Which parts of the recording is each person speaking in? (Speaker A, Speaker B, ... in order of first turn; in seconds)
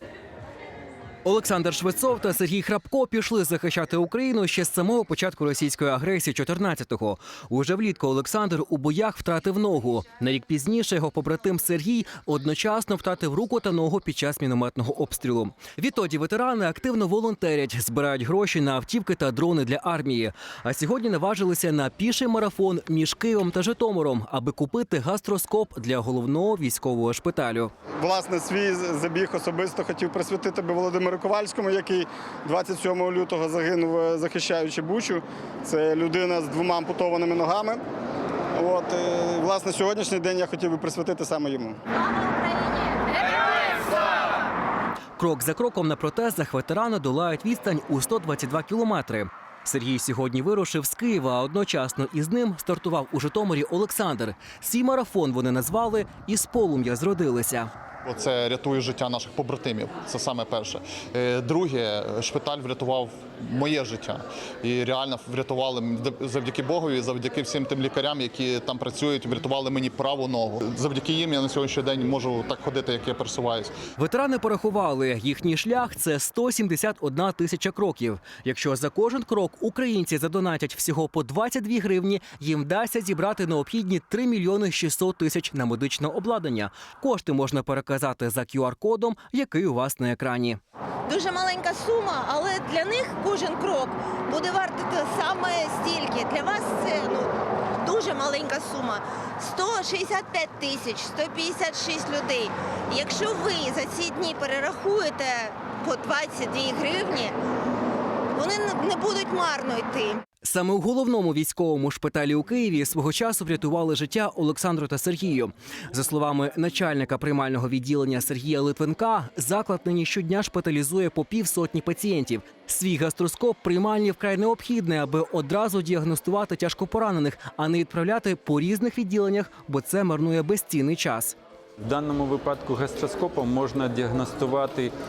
Speaker A: 1.2-27.7, 45.2-57.7, 74.0-90.6, 110.4-131.3
Speaker B: 27.9-37.8, 38.5-41.8
Speaker C: 42.1-43.4, 91.1-107.3, 108.4-110.2
Speaker D: 58.0-73.7
Speaker E: 131.8-134.9